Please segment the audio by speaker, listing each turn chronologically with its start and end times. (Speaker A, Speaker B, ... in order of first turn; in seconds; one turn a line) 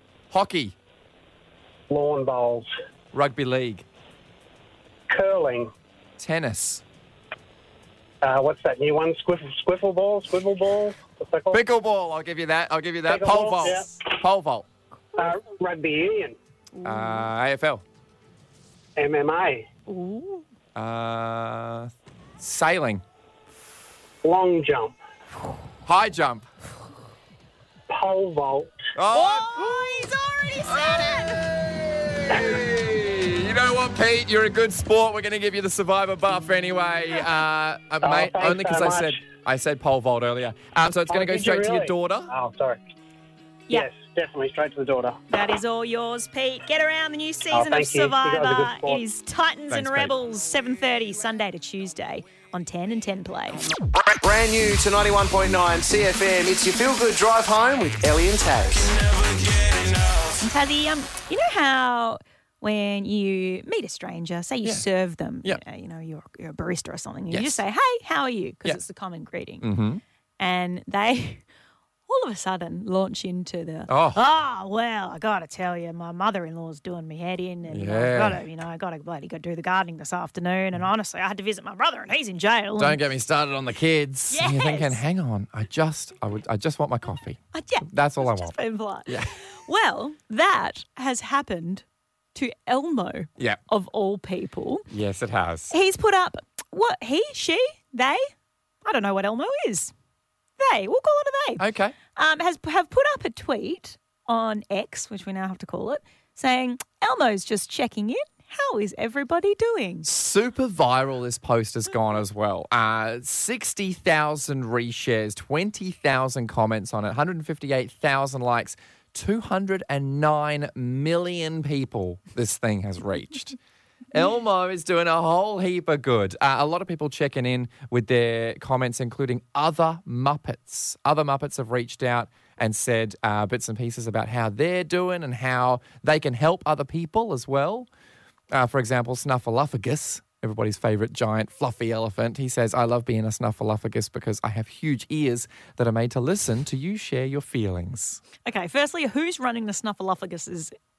Speaker A: 0.3-0.7
Speaker B: 1.9-2.7
Speaker A: 3.1-3.8
Speaker B: 5.1-5.7
Speaker A: 6.2-6.8
Speaker B: 8.2-11.6
Speaker A: 11.5-14.7
Speaker B: 13.0-13.9
Speaker B: 15.1-16.4
Speaker C: 16.7-17.3
Speaker A: 16.8-17.8
Speaker B: 18.9-19.6
Speaker C: 19.9-20.4
Speaker A: 20.7-23.0
Speaker B: 24.2-24.9
Speaker A: 25.9-26.4
Speaker B: 27.9-28.8
Speaker A: 28.9-30.0
Speaker C: 29.1-31.4
Speaker A: 30.7-42.3
Speaker B: 38.0-39.2
Speaker B: 41.1-42.8
Speaker B: 43.7-45.2
Speaker C: 45.3-53.6
Speaker B: 47.5-49.0
Speaker A: 49.7-50.1
Speaker D: 54.2-58.8
Speaker C: 60.4-69.7
Speaker A: 67.3-67.6
Speaker A: 69.6-70.0
Speaker C: 70.4-71.4
Speaker C: 72.1-83.0
Speaker A: 73.9-74.2
Speaker A: 77.7-78.4
Speaker A: 82.8-88.6
Speaker C: 84.3-85.0
Speaker C: 87.5-94.8
Speaker A: 94.9-95.7
Speaker C: 95.7-98.2
Speaker C: 98.8-99.9
Speaker C: 100.6-101.6
Speaker A: 101.6-102.0
Speaker C: 102.1-110.1
Speaker A: 110.0-123.6
Speaker A: 124.1-137.9
Speaker A: 138.5-148.2
Speaker C: 148.4-150.7